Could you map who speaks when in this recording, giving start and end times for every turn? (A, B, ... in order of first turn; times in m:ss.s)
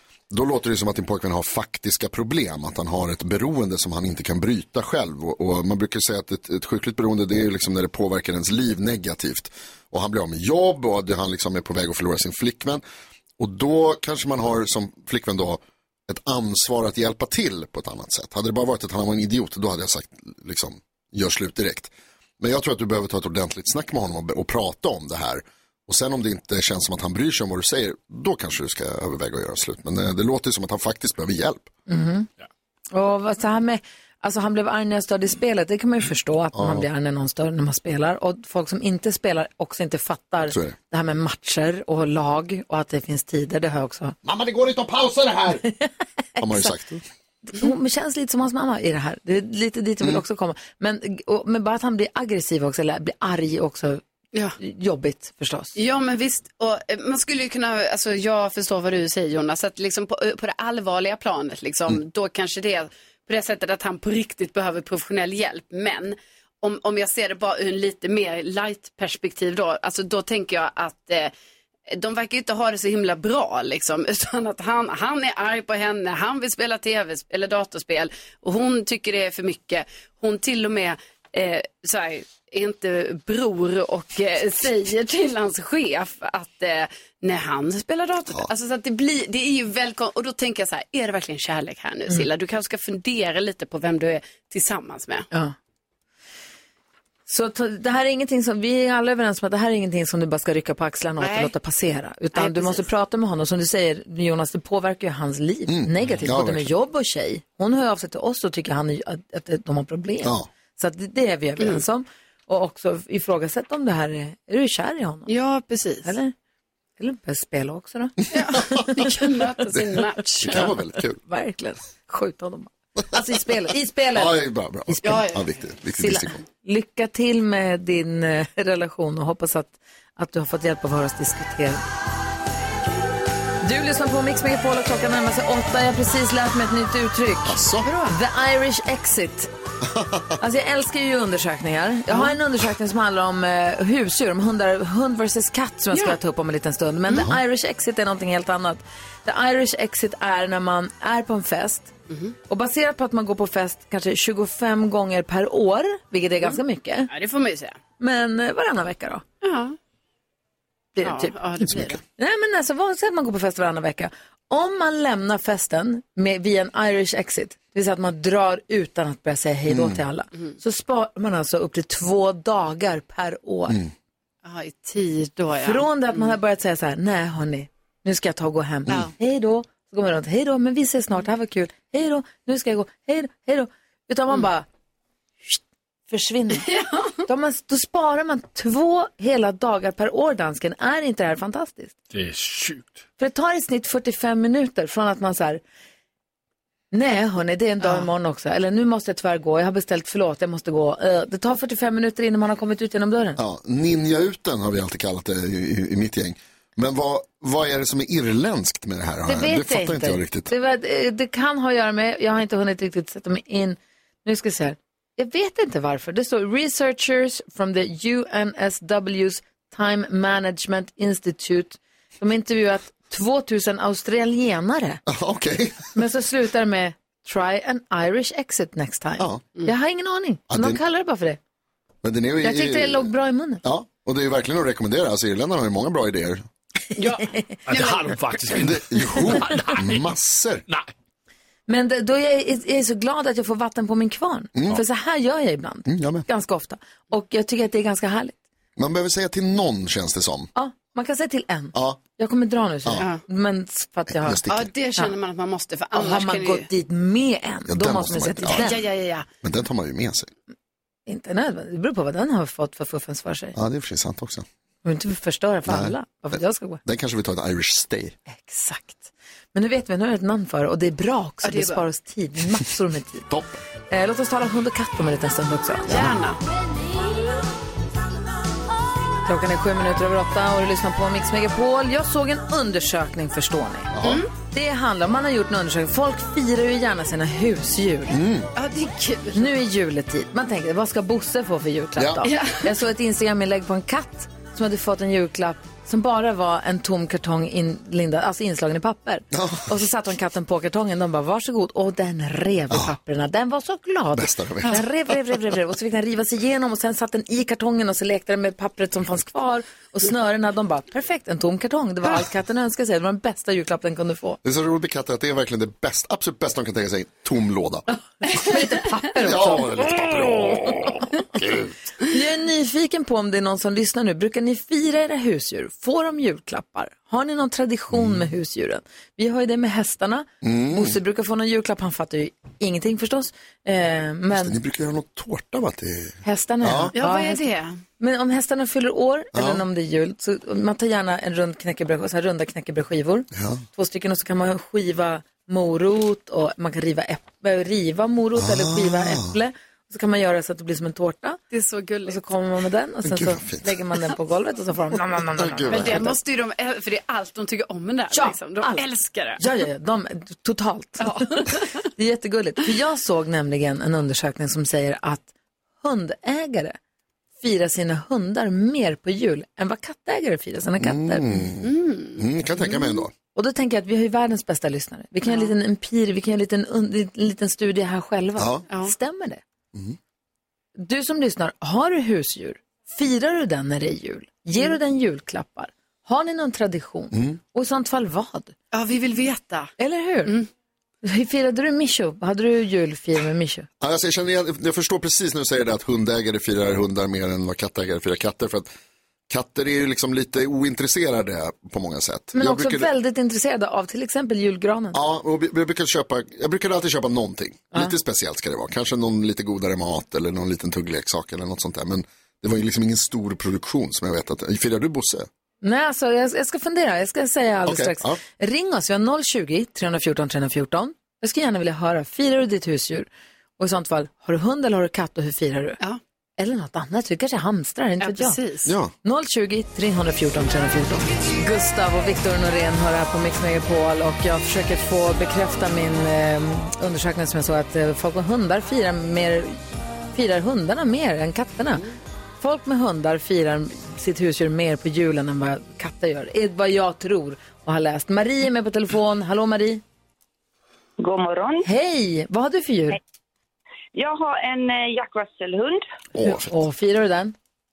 0:00.3-0:12.8 A
0:13.4-0:31.7 A
0:31.9-0:32.3 B
0:32.9-0:44.2 B
0:36.5-0:36.8 A
0:40.5-0:40.8 A
0:44.2-0:45.6 A
0:45.7-0:46.7 B
0:46.4-0:47.0 A
0:47.5-0:54.0 B
0:54.6-0:55.8 B
0:55.8-1:11.3 C
1:11.9-1:35.3 C
1:37.3-1:55.3 B
1:41.2-1:41.5 C
1:42.3-1:42.8 C
1:45.7-1:46.7 A
1:50.2-1:50.5 A
1:55.3-1:56.1 C
1:56.0-1:56.3 B
1:57.0-1:59.1 B
1:58.3-2:00.6 C
1:59.7-2:01.2 A
2:00.3-2:05.2 B
2:04.1-2:06.4 A
2:05.0-2:05.4 C
2:06.0-2:11.8 B
2:13.6-2:19.5 B
2:17.4-2:17.9 A
2:19.8-2:20.4 A
2:20.4-2:31.9 B
2:22.1-2:22.4 C
2:25.9-2:26.2 C
2:32.1-2:32.3 C
2:32.5-2:37.1 B
2:36.4-2:37.8 C
2:38.0-2:39.2 B
2:39.4-2:39.8 C
2:41.0-2:53.8 B
2:41.0-2:42.0 C
2:49.7-2:50.0 A
2:54.4-2:56.3 C
2:55.6-3:04.7 B
3:05.4-3:11.9 B
3:06.6-3:07.1 C
3:12.1-3:13.0 D
3:13.2-3:15.6 B
3:16.9-3:23.4 B
3:17.8-3:18.1 C
3:23.4-3:30.5 A
3:29.3-3:45.0 B
3:45.0-3:45.9 A
3:45.9-3:51.4 B
3:49.2-3:49.4 A
3:50.5-3:50.8 A
3:52.0-3:53.1 A
3:52.4-3:53.6 B
3:53.6-3:56.4 A
3:57.0-3:57.6 B
3:57.0-3:58.0 C
3:57.7-4:00.1 D
3:58.5-4:00.6 A
4:01.7-4:08.4 B
4:04.6-4:04.8 A
4:05.8-4:06.2 A
4:08.8-4:10.5 A
4:10.5-4:14.4 B
4:11.7-4:12.0 A
4:14.1-4:14.7 A
4:14.5-4:16.7 C
4:15.9-4:18.8 B
4:17.7-4:18.8 A
4:18.5-4:19.2 C
4:19.4-4:20.3 A
4:21.1-4:23.6 B
4:23.6-4:24.4 A
4:24.8-4:26.8 B
4:25.7-4:28.2 A
4:28.3-4:33.3 B
4:31.4-4:31.8 C
4:33.3-4:33.6 A
4:33.9-4:36.1 B
4:35.9-4:36.4 C
4:35.9-4:36.2 A
4:39.2-4:48.2 B
4:44.0-4:44.2 A
4:44.0-4:44.3 C
4:48.1-4:48.5 A
4:48.5-4:49.5 C
4:49.3-5:14.4 B
4:52.0-4:52.2 A
4:52.2-4:52.7 C
4:59.3-4:59.7 A
5:04.1-5:04.8 A
5:14.4-5:17.8 A
5:18.2-5:19.9 B
5:19.2-5:21.7 A
5:22.0-5:34.6 B
5:27.9-5:28.2 A
5:30.4-5:31.0 A
5:34.3-5:36.9 A
5:36.2-5:37.5 B
5:36.9-5:37.8 C
5:38.0-5:51.4 B
5:39.3-5:39.6 A
5:43.3-5:43.6 A
5:48.4-5:49.4 A
5:51.5-5:52.2 C
5:52.0-5:56.1 B
5:53.0-5:53.7 A
5:55.3-5:56.2 A
5:55.7-5:59.4 C
5:58.1-5:58.8 B
5:59.4-6:05.3 B
6:01.0-6:01.8 C
6:05.8-6:06.8 B
6:07.4-6:11.3 B
6:10.8-6:13.1 A
6:11.6-6:12.2 C
6:13.3-6:19.4 B
6:15.2-6:15.5 C
6:18.4-6:18.6 A
6:18.7-6:18.9 C
6:20.8-6:28.6 B
6:27.1-6:27.4 A
6:28.7-6:29.7 C
6:29.8-6:30.3 B
6:31.0-6:33.7 B
6:33.8-6:38.7 A
6:39.3-6:42.9 A
6:42.3-6:45.0 B
6:44.9-6:55.3 A
6:55.6-7:05.8 B
6:57.6-6:58.2 A
7:06.4-7:08.4 B
7:08.0-7:08.7 C
7:08.6-7:08.9 A
7:09.0-7:19.6 B
7:20.1-7:21.8 B
7:22.4-7:29.8 B
7:31.0-7:31.6 E
7:31.6-7:33.0 B
7:33.9-7:35.8 E
7:36.1-7:36.6 A
7:36.2-7:37.3 B